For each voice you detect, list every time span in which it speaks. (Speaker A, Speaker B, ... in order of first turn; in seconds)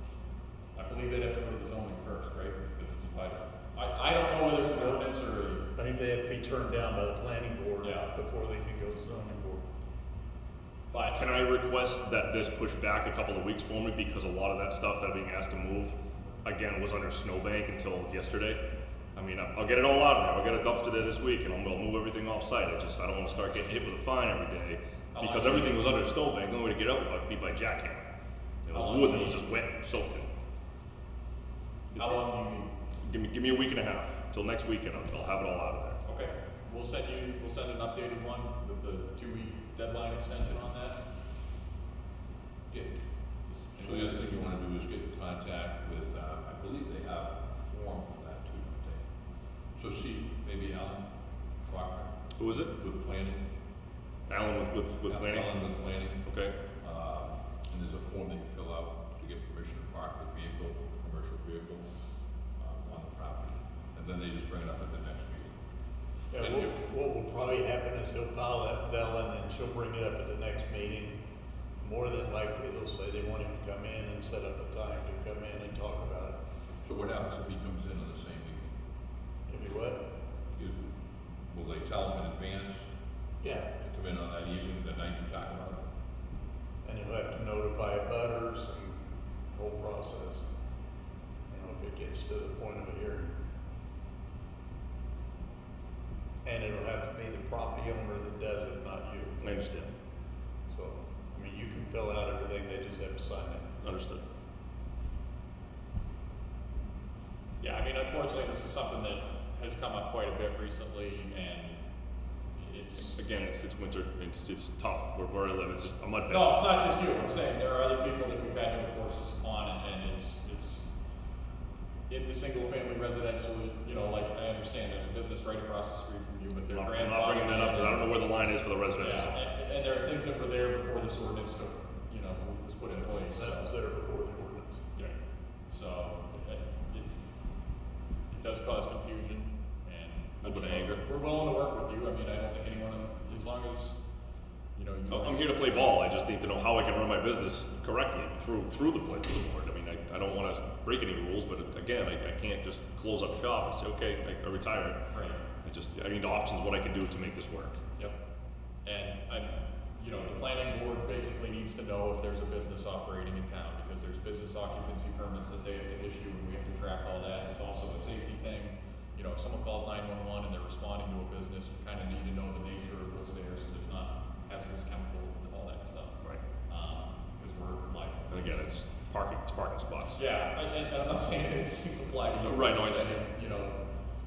Speaker A: 0.7-5.7, 7.8-8.1, 10.9-11.2, 25.1-25.8, 28.7-29.4, 32.0-32.7, 36.0-41.0, 43.8-44.2, 107.6-111.8, 112.6-113.2, 116.3-120.8, 122.1-128.1, 129.0-133.7, 135.7-137.1, 138.3-144.0, 144.8-146.0, 155.1-155.4, 158.8-178.7, 180.2-183.8
Speaker B: 4.7-5.0, 5.8-9.6, 66.3-71.2, 71.8-76.4, 79.5-80.0, 83.4-83.7, 86.8-89.0, 89.5-90.5, 91.5-93.4, 96.5-99.4, 100.7-103.8, 133.1-134.8
Speaker C: 11.1-18.6, 19.1-28.0, 28.6-30.3, 31.9-32.2, 33.0-36.0, 52.4-52.7, 54.3-55.5, 56.2-56.5, 99.4-99.9, 103.8-104.2, 113.0-116.6, 126.7-129.3, 140.4-141.0, 145.1-155.0, 155.6-157.8, 178.3-180.2, 182.4-183.2
Speaker D: 42.7-49.0, 49.8-51.1, 51.6-52.1, 52.7-53.5, 55.0-61.9, 62.6-65.5, 66.4-66.7, 76.8-78.7, 80.5-80.9, 81.5-82.9, 83.8-85.8